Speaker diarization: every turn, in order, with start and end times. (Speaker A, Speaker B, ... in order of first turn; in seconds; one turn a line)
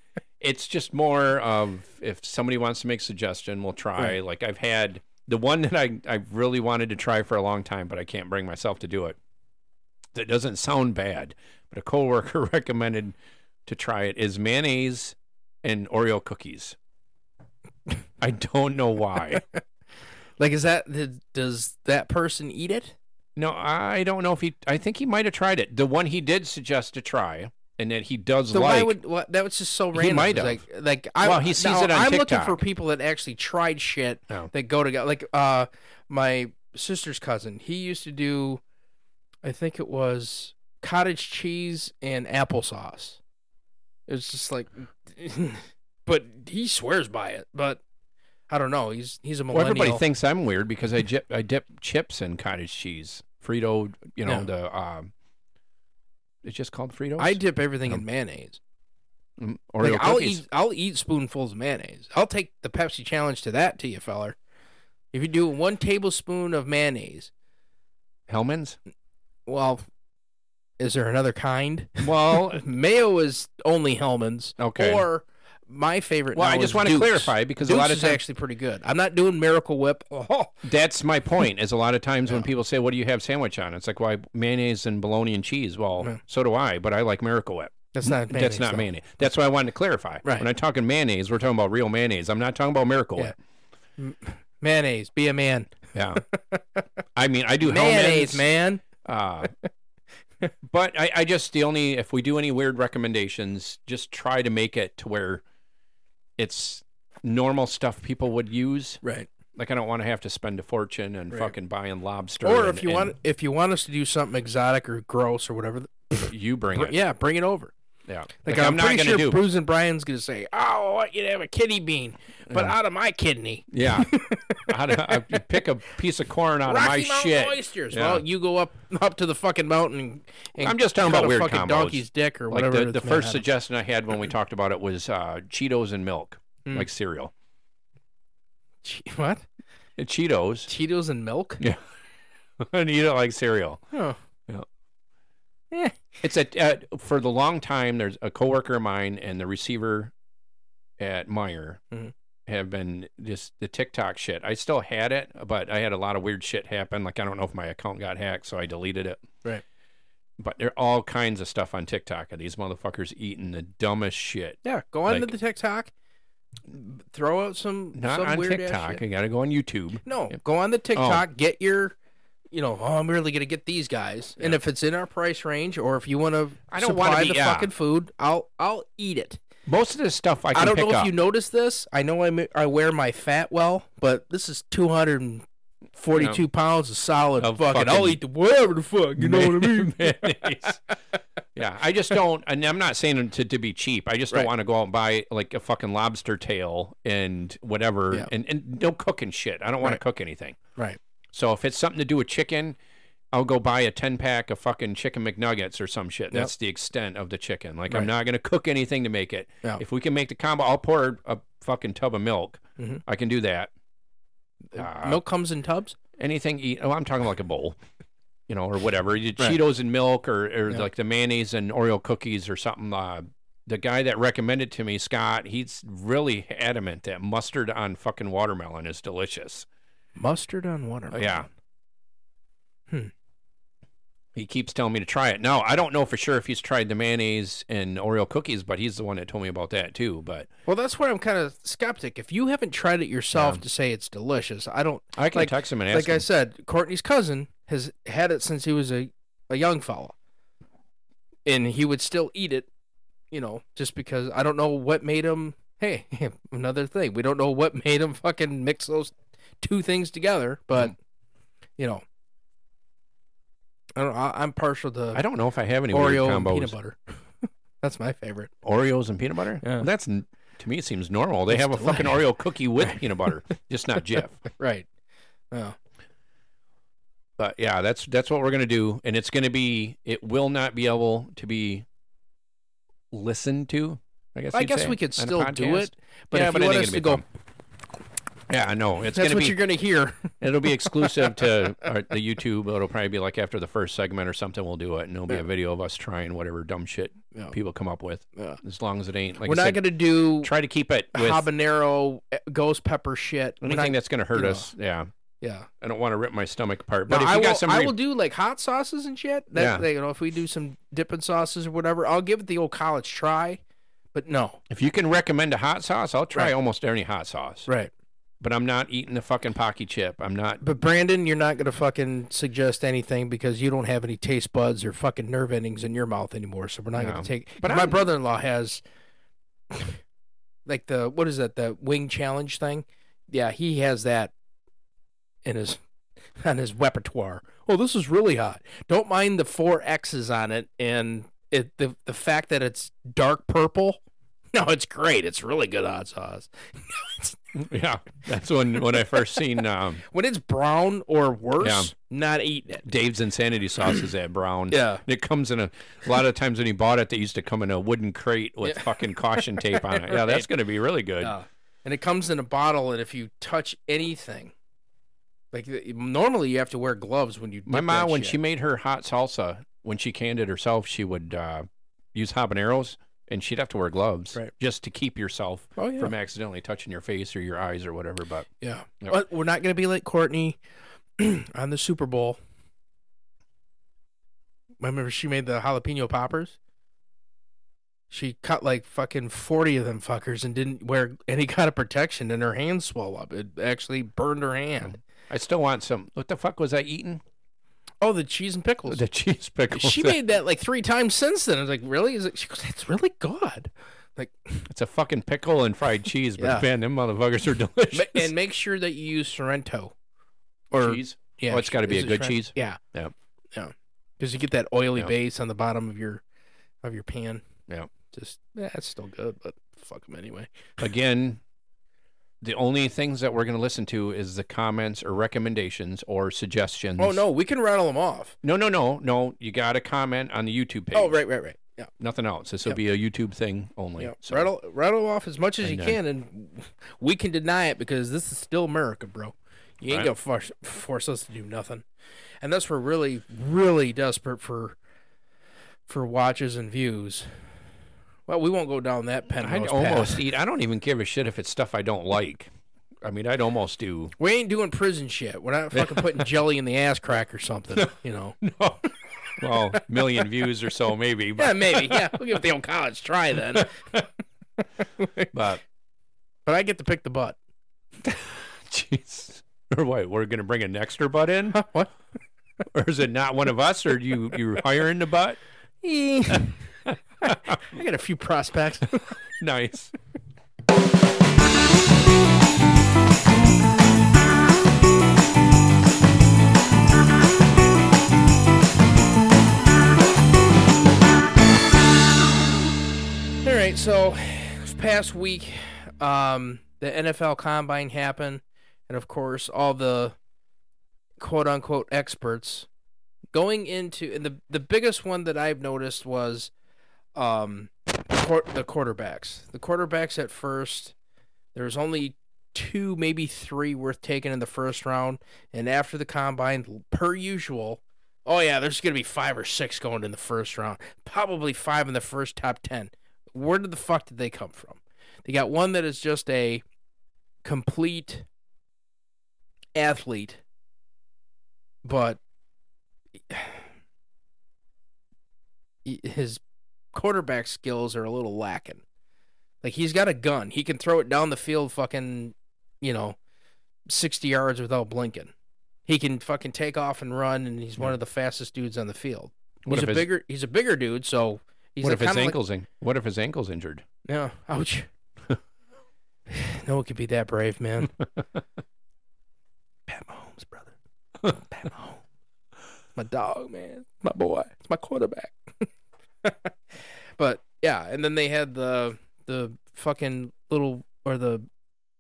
Speaker A: 0.4-9.2
Speaker A: 10.1-16.8
Speaker A: 18.2-19.4
Speaker B: 20.4-23.0
Speaker A: 23.4-28.9
Speaker B: 28.5-38.6
Speaker A: 29.9-30.6
Speaker A: 31.2-32.6
Speaker B: 39.4-43.2
Speaker B: 44.1-47.8
Speaker B: 48.5-50.0
Speaker A: 49.5-55.1
Speaker A: 56.4-58.0
Speaker B: 57.2-58.6
Speaker A: 59.4-60.4
Speaker B: 59.8-64.4
Speaker B: 65.1-67.3
Speaker A: 68.3-68.8
Speaker B: 69.5-69.8
Speaker B: 70.8-80.6
Speaker A: 72.0-72.6
Speaker A: 74.6-75.0
Speaker A: 76.3-78.2
Speaker A: 80.6-93.3
Speaker B: 87.9-88.9
Speaker B: 94.0-96.8
Speaker A: 95.9-96.2
Speaker A: 97.2-98.5
Speaker B: 97.6-98.8
Speaker A: 99.0-99.5
Speaker A: 100.7-105.4
Speaker A: 106.4-109.0
Speaker B: 109.0-109.3
Speaker A: 109.5-113.2
Speaker B: 112.4-117.7
Speaker A: 116.2-117.0
Speaker A: 118.1-119.4
Speaker B: 118.4-125.4
Speaker A: 122.5-122.8
Speaker A: 123.7-124.1
Speaker A: 124.6-128.2
Speaker B: 126.7-133.4
Speaker A: 130.6-137.3
Speaker B: 138.8-139.4
Speaker A: 140.0-140.7
Speaker B: 140.7-141.6
Speaker A: 142.6-143.8
Speaker B: 143.9-144.2
Speaker B: 145.7-146.0
Speaker A: 146.2-150.1
Speaker A: 151.0-151.8
Speaker A: 152.5-159.2
Speaker A: 160.4-165.3
Speaker B: 164.6-165.9
Speaker B: 166.7-169.0
Speaker A: 167.9-170.1
Speaker B: 170.1-172.0
Speaker A: 170.9-171.2
Speaker B: 172.5-179.4
Speaker A: 176.7-177.7
Speaker A: 179.7-181.1
Speaker B: 180.5-190.9
Speaker A: 186.1-186.4
Speaker A: 187.4-188.2
Speaker A: 189.2-190.8
Speaker A: 191.6-200.6
Speaker A: 201.3-202.8
Speaker A: 203.3-213.7
Speaker A: 214.7-215.2
Speaker B: 214.8-216.0
Speaker A: 216.2-217.8
Speaker A: 218.5-229.7
Speaker B: 230.2-231.5
Speaker A: 231.1-231.5
Speaker A: 234.3-240.5
Speaker B: 240.7-250.2
Speaker A: 243.3-243.6
Speaker A: 245.2-246.2
Speaker B: 251.5-252.7
Speaker B: 253.3-260.9
Speaker B: 261.8-262.0
Speaker B: 264.0-265.2
Speaker A: 265.1-266.8
Speaker B: 265.9-268.5
Speaker A: 268.6-274.4
Speaker B: 269.6-269.9
Speaker B: 271.5-272.2
Speaker B: 274.5-274.9
Speaker B: 275.5-275.8
Speaker A: 277.4-281.9
Speaker A: 283.1-287.2
Speaker B: 284.5-287.2
Speaker A: 288.5-289.6
Speaker B: 289.1-291.3
Speaker A: 290.4-299.8
Speaker B: 299.4-300.5
Speaker A: 300.4-301.5
Speaker B: 301.1-304.7
Speaker A: 303.6-305.1
Speaker B: 305.4-305.7
Speaker A: 305.8-307.9
Speaker B: 307.1-313.6
Speaker A: 309.5-309.9
Speaker B: 314.1-314.6
Speaker A: 314.7-317.7
Speaker A: 318.4-320.6
Speaker B: 320.6-328.8
Speaker A: 326.9-328.1
Speaker B: 329.7-330.0
Speaker B: 330.7-334.3
Speaker B: 335.4-335.8
Speaker B: 336.4-344.0
Speaker B: 344.5-347.4
Speaker A: 347.5-350.0
Speaker B: 350.0-352.9
Speaker A: 351.6-351.9
Speaker A: 352.9-361.3
Speaker B: 354.7-355.0
Speaker B: 358.6-360.5
Speaker B: 361.2-364.5
Speaker B: 365.5-368.4
Speaker A: 367.7-378.5
Speaker B: 375.8-376.1
Speaker B: 378.6-380.6
Speaker B: 381.2-382.4
Speaker B: 384.8-386.6
Speaker B: 388.1-395.0
Speaker A: 394.8-397.2
Speaker B: 398.0-399.0
Speaker A: 398.9-400.2
Speaker B: 399.7-404.7
Speaker A: 404.7-408.3
Speaker B: 406.4-406.7
Speaker B: 407.9-409.9
Speaker B: 410.7-412.8
Speaker A: 410.8-413.1
Speaker B: 413.5-416.2
Speaker B: 416.8-417.4
Speaker B: 418.1-420.8
Speaker A: 420.8-421.4
Speaker A: 422.4-427.2
Speaker B: 427.0-428.4
Speaker A: 428.4-431.2
Speaker B: 430.9-431.9
Speaker A: 432.0-434.5
Speaker B: 434.0-441.9
Speaker A: 435.6-436.0
Speaker A: 439.9-440.1
Speaker B: 442.4-444.8
Speaker B: 445.9-447.3
Speaker B: 448.3-450.2
Speaker A: 449.4-452.5
Speaker A: 453.0-454.1
Speaker B: 454.2-458.4
Speaker A: 455.7-456.3
Speaker A: 457.8-462.2
Speaker B: 461.4-463.8
Speaker A: 463.5-464.0
Speaker B: 465.0-465.3
Speaker A: 465.3-465.6
Speaker B: 466.5-467.4
Speaker A: 468.0-471.6
Speaker B: 471.5-471.9
Speaker A: 472.7-475.4
Speaker B: 475.8-476.6
Speaker A: 476.9-477.6
Speaker B: 477.5-479.1
Speaker A: 479.3-479.9
Speaker B: 493.4-500.2
Speaker B: 501.2-502.7
Speaker B: 503.3-506.5
Speaker B: 507.2-510.9
Speaker B: 511.6-526.6
Speaker B: 527.4-528.3
Speaker B: 529.8-530.4
Speaker B: 531.8-532.2
Speaker B: 533.3-533.6
Speaker B: 535.9-536.4
Speaker B: 536.9-538.8
Speaker B: 539.6-543.2
Speaker B: 543.9-545.3
Speaker B: 545.9-552.4
Speaker A: 549.7-550.1
Speaker A: 551.8-553.8
Speaker B: 554.1-554.9
Speaker B: 556.3-558.0
Speaker B: 559.9-560.8
Speaker B: 561.3-562.0
Speaker B: 563.0-565.7
Speaker B: 566.2-571.5